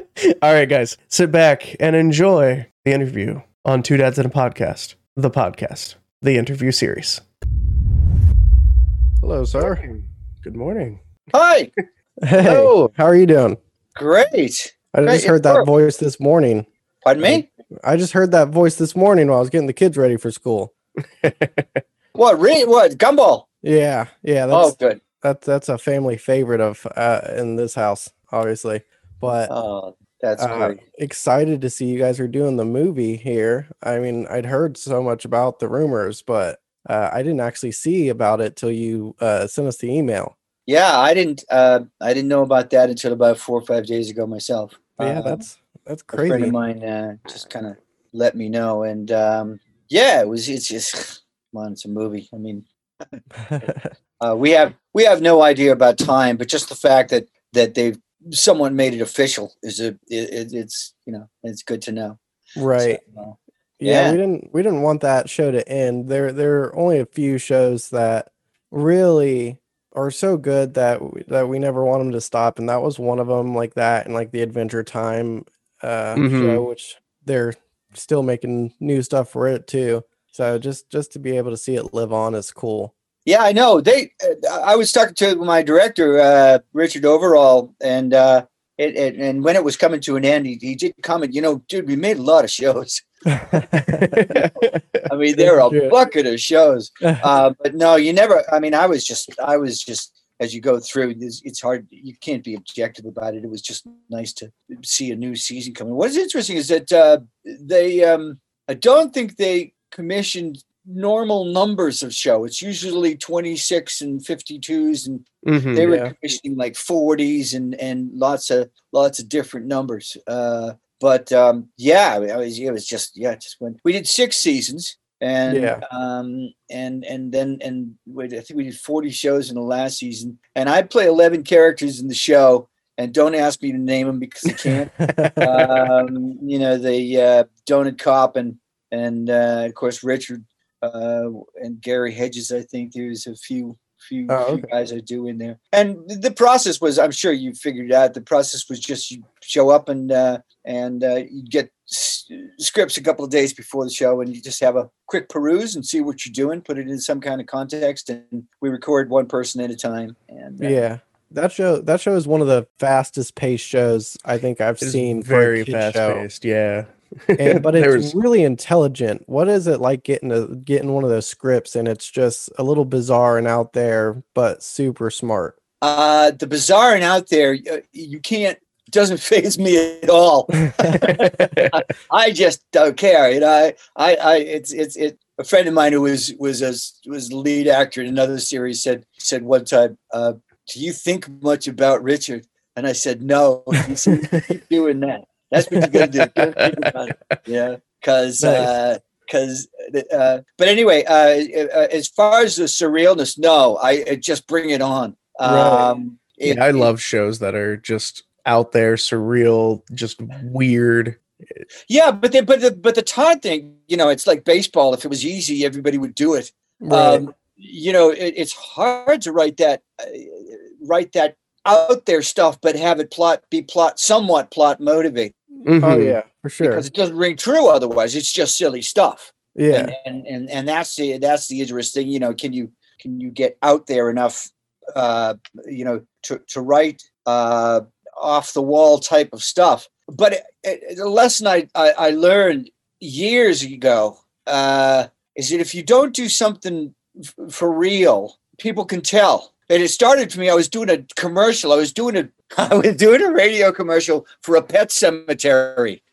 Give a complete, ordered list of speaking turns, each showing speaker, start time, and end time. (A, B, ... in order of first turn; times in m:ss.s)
0:00.2-0:07.2 A
0:09.2-0:09.8 B
0:09.6-0:11.0 A
0:11.3-0:11.7 C
0:12.2-0:13.6 B
0:12.4-0:12.8 C
0:14.0-0:15.7 C
0:14.9-0:16.7 B
0:17.0-0:17.5 C
0:17.2-0:20.7 B
0:21.2-0:21.8 A
0:22.2-0:23.4 C
0:23.6-0:29.5 B
0:24.5-0:25.0 C
0:29.5-0:30.8 C
0:30.4-0:40.3 B
0:40.7-0:45.4 C
0:45.0-0:46.5 B
0:46.1-0:53.7 C
0:53.5-0:53.9 B
0:54.2-1:02.2 C
1:02.6-1:03.0 B
1:02.8-1:04.2 C
1:03.8-1:22.9 B
1:16.2-1:16.6 A
1:23.2-1:33.1 C
1:33.4-1:34.4 B
1:33.8-1:35.1 A
1:35.1-2:40.8 C
1:35.7-1:35.9 B
1:55.4-1:55.8 A
1:55.8-1:56.1 B
2:05.5-2:05.8 B
2:15.0-2:15.9 B
2:24.3-2:24.7 B
2:40.6-2:46.2 B
2:44.8-2:48.1 A
2:47.4-2:55.6 B
2:55.8-3:26.9 C
3:01.1-3:01.7 A
3:15.7-3:16.9 A
3:18.4-3:18.7 B
3:25.4-3:25.9 B
3:26.4-3:31.6 A
3:31.9-3:45.3 C
3:36.8-3:37.2 B
3:45.7-3:46.2 A
3:45.8-3:46.8 B
3:46.6-4:16.0 C
3:49.5-3:49.9 B